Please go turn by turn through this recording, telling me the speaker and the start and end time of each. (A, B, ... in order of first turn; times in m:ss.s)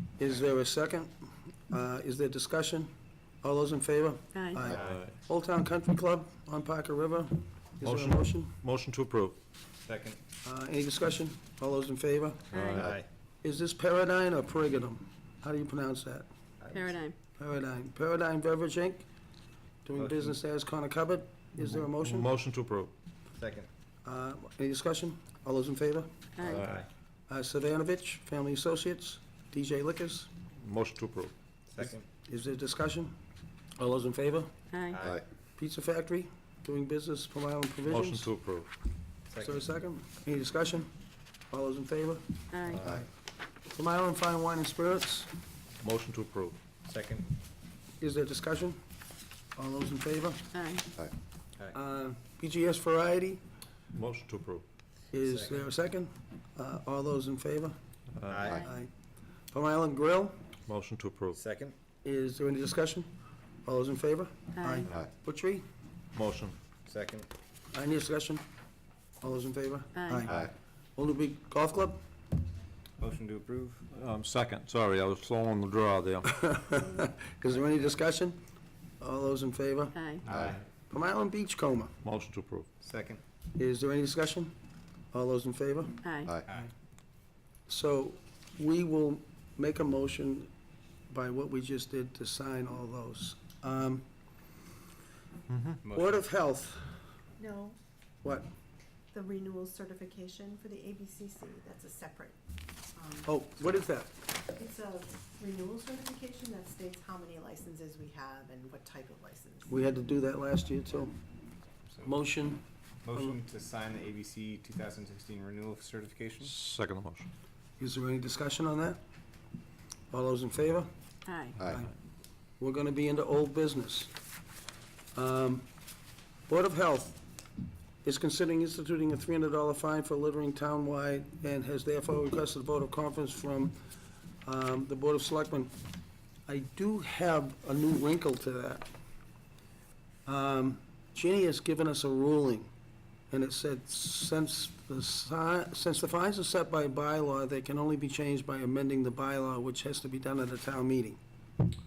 0:00.2-0:01.1 A
0:01.7-0:02.9 A
0:03.4-0:08.5 A
0:04.3-0:04.6 B
0:04.6-0:05.0 C
0:07.8-0:09.4 D
0:09.8-0:10.2 C
0:10.4-0:12.6 A
0:12.5-0:12.8 B
0:12.5-0:12.9 D
0:12.8-0:13.1 C
0:13.4-0:16.2 A
0:16.6-0:17.0 C
0:16.7-0:17.1 B
0:17.4-0:19.0 A
0:19.8-0:22.3 A
0:20.0-0:20.4 C
0:21.6-0:22.9 D
0:23.3-0:23.7 C
0:24.0-0:26.1 A
0:26.4-0:26.6 B
0:26.6-0:26.9 C
0:27.3-0:30.3 A
0:30.6-0:31.3 D
0:31.7-0:32.0 C
0:32.3-0:33.1 A
0:33.8-0:34.5 A
0:34.7-0:35.0 B
0:34.9-0:35.2 C
0:35.6-0:38.3 A
0:37.9-0:38.7 D
0:39.3-0:39.7 C
0:39.4-0:40.9 A
0:41.5-0:42.3 A
0:42.5-0:42.8 B
0:43.7-0:45.3 A
0:45.8-0:46.6 D
0:46.8-0:47.3 C
0:48.0-0:48.8 A
0:49.6-0:50.4 A
0:50.5-0:50.9 B
0:51.7-0:53.4 A
0:53.9-0:54.6 D
0:55.1-0:57.7 A
0:55.2-0:55.6 C
0:58.2-0:58.4 D
0:58.3-0:58.6 C
0:58.6-0:58.9 A
0:59.5-1:00.4 A
1:00.7-1:01.4 D
1:01.3-1:01.7 C
1:02.0-1:03.1 A
1:03.6-1:05.6 A
1:04.5-1:04.9 B
1:06.1-1:06.6 D
1:06.8-1:07.3 C
1:07.7-1:08.4 A
1:09.2-1:12.0 A
1:09.9-1:10.3 B
1:13.0-1:13.8 C
1:13.9-1:16.4 D
1:16.3-1:18.4 A
1:19.0-1:20.0 A
1:19.9-1:20.2 B
1:20.2-1:20.6 C
1:20.9-1:21.9 A
1:22.0-1:22.7 D
1:22.8-1:23.2 C
1:23.6-1:24.5 A
1:25.1-1:26.0 A
1:26.0-1:26.4 B
1:27.7-1:30.5 A
1:31.1-1:34.0 A
1:35.5-1:35.8 D
1:35.8-1:36.3 C
1:35.9-1:37.0 A
1:37.4-1:37.8 E
1:38.2-1:38.5 A
1:39.1-1:42.4 E
1:42.9-1:43.3 E
1:43.2-1:44.1 A
1:44.5-1:49.8 E
1:49.7-1:51.2 A
1:51.9-1:52.1 C
1:52.0-1:52.6 A
1:53.0-1:56.5 C
1:56.4-1:57.3 D
1:57.8-1:59.0 A
2:00.1-2:00.9 A
2:01.3-2:01.6 B
2:01.6-2:01.9 A
2:02.6-2:04.1 A
2:05.1-2:05.6 A
2:06.5-2:07.2 A
2:08.0-2:13.8 A
2:14.4-2:15.7 A
2:16.5-2:18.9 A
2:20.2-2:22.7 A
2:23.3-2:31.2 A